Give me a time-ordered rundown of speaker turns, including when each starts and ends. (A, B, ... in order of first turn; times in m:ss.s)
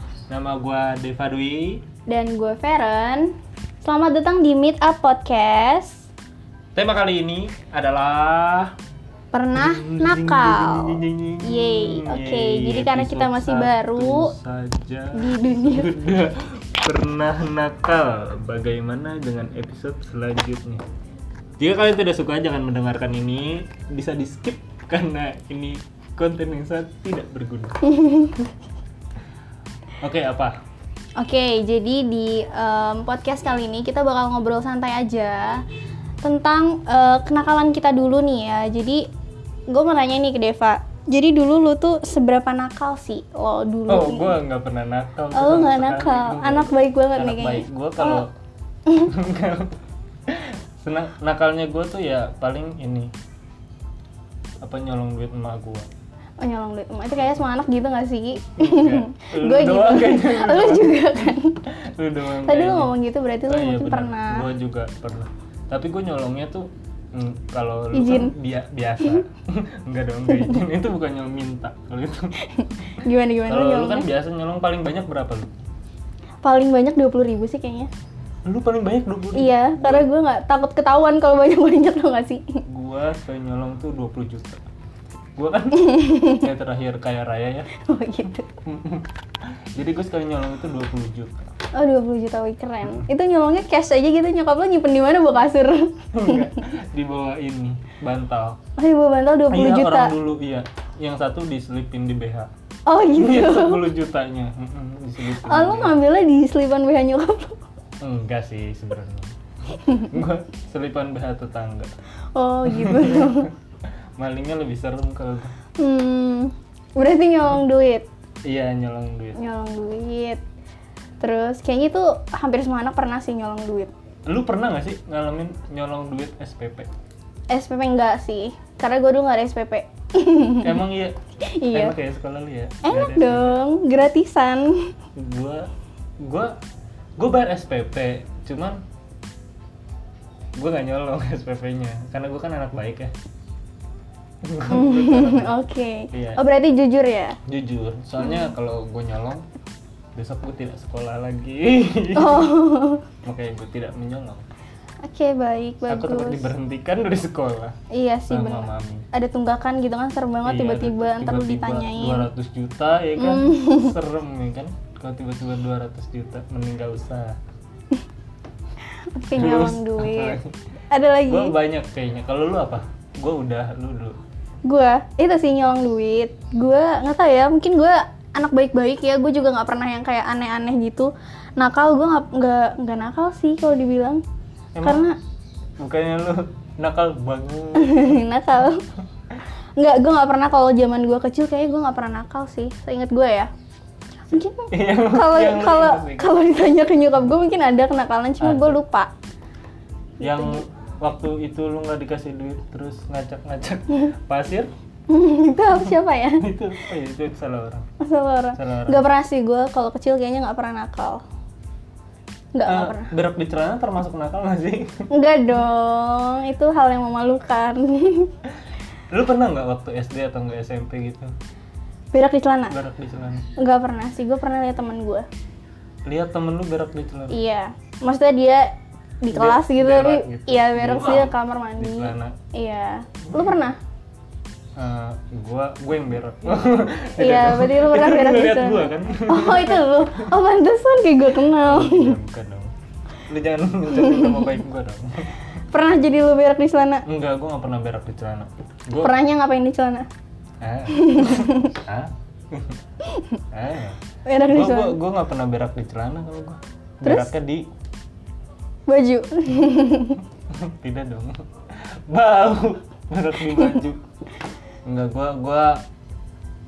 0:00.3-0:01.8 A
0:02.1-0:06.1 B
0:06.7-0:08.7 A
0:09.3-0:14.3 B
0:09.5-0:20.8 A
0:15.1-0:15.9 B
0:21.6-0:27.9 A
0:27.8-0:28.5 B
0:30.0-0:30.6 A
0:31.2-0:35.6 B
0:36.2-0:39.1 B
0:39.7-0:44.4 B
0:43.9-0:48.3 A
0:45.3-0:48.2 B
0:49.0-0:49.7 A
0:50.3-0:53.1 A
0:54.6-0:55.9 A
0:56.4-1:01.6 B
0:58.6-1:02.9 A
1:02.4-1:04.4 B
1:03.5-1:12.3 A
1:07.9-1:08.3 B
1:12.4-1:14.1 B
1:13.5-1:15.5 A
1:16.4-1:17.9 B
1:18.4-1:20.1 A
1:19.3-1:22.6 B
1:22.7-1:24.6 A
1:25.4-1:27.7 A
1:25.7-1:26.5 B
1:27.7-1:28.5 B
1:28.6-1:29.1 A
1:29.7-1:31.4 A
1:31.7-1:36.6 B
1:36.1-1:38.6 A
1:38.8-1:40.1 B
1:39.5-1:42.5 A
1:42.9-1:43.9 B
1:43.1-1:46.0 A
1:45.3-1:47.6 B
1:48.0-1:51.9 A
1:49.7-1:50.1 B
1:52.3-1:53.5 B
1:52.6-1:53.5 A
1:54.2-1:55.5 A
1:55.8-1:58.1 B
1:58.4-1:59.4 A
1:59.3-2:00.4 B
2:01.2-2:03.9 B
2:04.3-2:06.9 A
2:07.5-2:10.8 B
2:10.6-2:11.2 A
2:11.4-2:11.9 B
2:11.7-2:13.6 A
2:12.8-2:14.9 B
2:15.2-2:15.7 A
2:16.2-2:16.5 A
2:17.2-2:18.8 A
2:20.6-2:23.1 A
2:24.4-2:25.5 A
2:24.7-2:27.4 B
2:26.1-2:26.4 A
2:27.5-2:29.4 A
2:30.1-2:32.6 A
2:32.1-2:33.0 B
2:33.2-2:34.4 A
2:35.0-2:36.5 B
2:35.9-2:37.8 A
2:37.9-2:42.2 B
2:38.3-2:39.1 A
2:40.4-2:47.4 A
2:43.2-2:43.9 B
2:49.1-2:50.4 B
2:49.3-2:50.5 A
2:50.9-2:51.5 B
2:51.3-2:54.2 A
2:54.6-3:04.2 B
3:04.7-3:05.0 A
3:04.8-3:05.2 B
3:05.8-3:08.2 A
3:07.8-3:08.8 B
3:09.8-3:13.5 B
3:14.3-3:19.1 B
3:14.7-3:16.3 A
3:18.4-3:18.8 A
3:20.2-3:20.6 B
3:20.2-3:24.7 A
3:25.1-3:26.5 B
3:25.8-3:27.9 A
3:28.0-3:31.2 B
3:28.6-3:29.0 A
3:32.5-3:33.1 B
3:32.6-3:35.0 A
3:35.1-3:38.3 B
3:39.1-3:41.3 A
3:42.1-3:42.7 B
3:42.7-3:43.5 A
3:43.6-3:45.3 B
3:46.0-3:47.4 A
3:47.3-3:53.8 B
3:49.3-3:52.4 A
3:54.8-4:00.3 A
3:57.2-4:02.1 B
4:01.6-4:02.7 A
4:03.3-4:05.3 A
4:03.9-4:04.4 B
4:05.7-4:07.0 B
4:07.0-4:09.2 A
4:09.0-4:10.1 B
4:10.6-4:12.8 A
4:10.9-4:11.7 B
4:13.0-4:13.4 B
4:13.5-4:17.7 A
4:14.2-4:15.0 B
4:17.0-4:17.3 B
4:18.9-4:20.2 B
4:20.5-4:24.0 A
4:24.8-4:25.8 A